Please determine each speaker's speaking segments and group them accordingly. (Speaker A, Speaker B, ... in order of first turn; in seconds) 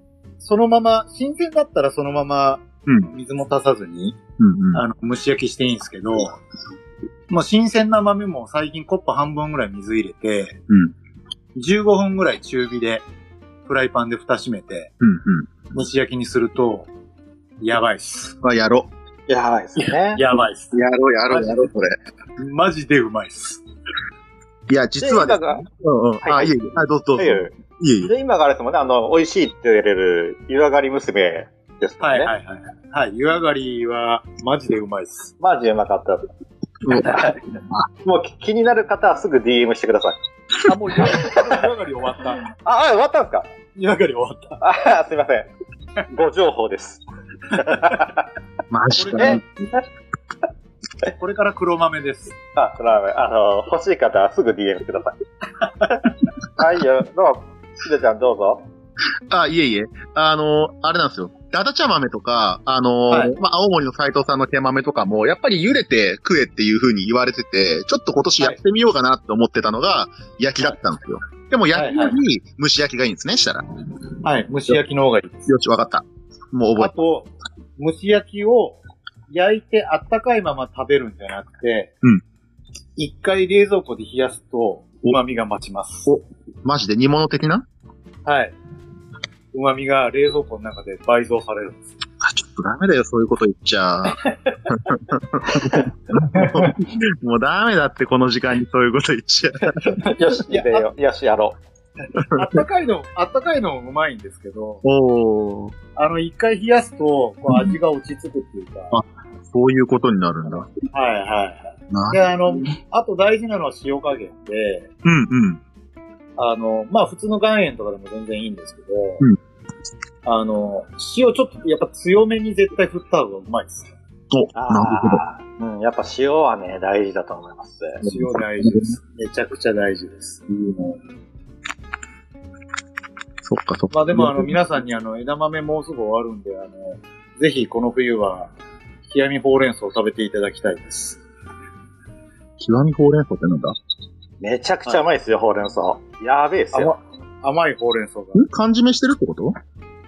Speaker A: 0.4-4.2, 4.7-6.3, 7.3-10.6, 11.5-13.1, 13.7-14.9, 15.7-16.9, 17.6-18.4, 20.1-20.8, 21.3-21.6, 22.4-23.6, 32.0-35.3, 40.6-42.4, 43.7-44.6, 49.0-49.4, 51.1-52.4, 63.1-63.3, 71.7-72.2, 74.2-75.5, 76.8-78.8, 79.3-81.9, 83.0-86.1, 88.2-88.5, 89.5-91.9, 99.8-100.9, 102.2-104.8, 105.9-109.0, 110.9-114.9, 116.4-119.2, 120.2-123.9, 128.0-130.9, 133.9-138.5, 139.1-141.2, 146.7-148.5
Speaker B: 4.4-4.8, 15.0-15.6, 18.4-18.9, 20.7-21.9, 24.7-28.1, 48.7-49.4, 59.3-73.6, 75.5-77.0, 86.0-87.6, 92.2-99.8, 104.8-105.8, 107.5-107.8, 108.9-110.7, 111.9-112.2, 115.0-115.6, 124.3-125.2, 128.0-128.9, 133.4-134.5, 142.6-143.7, 148.3-149.6
Speaker C: 19.3-20.2, 25.0-25.6, 26.2-26.5, 27.2-32.3, 35.4-36.2, 36.9-37.4, 38.0-40.1, 42.6-43.5, 44.6-45.5, 46.1-47.0, 47.5-48.2, 52.5-55.1, 56.5-58.6, 95.5-95.8, 100.0-101.6, 124.5-128.0, 144.4-146.9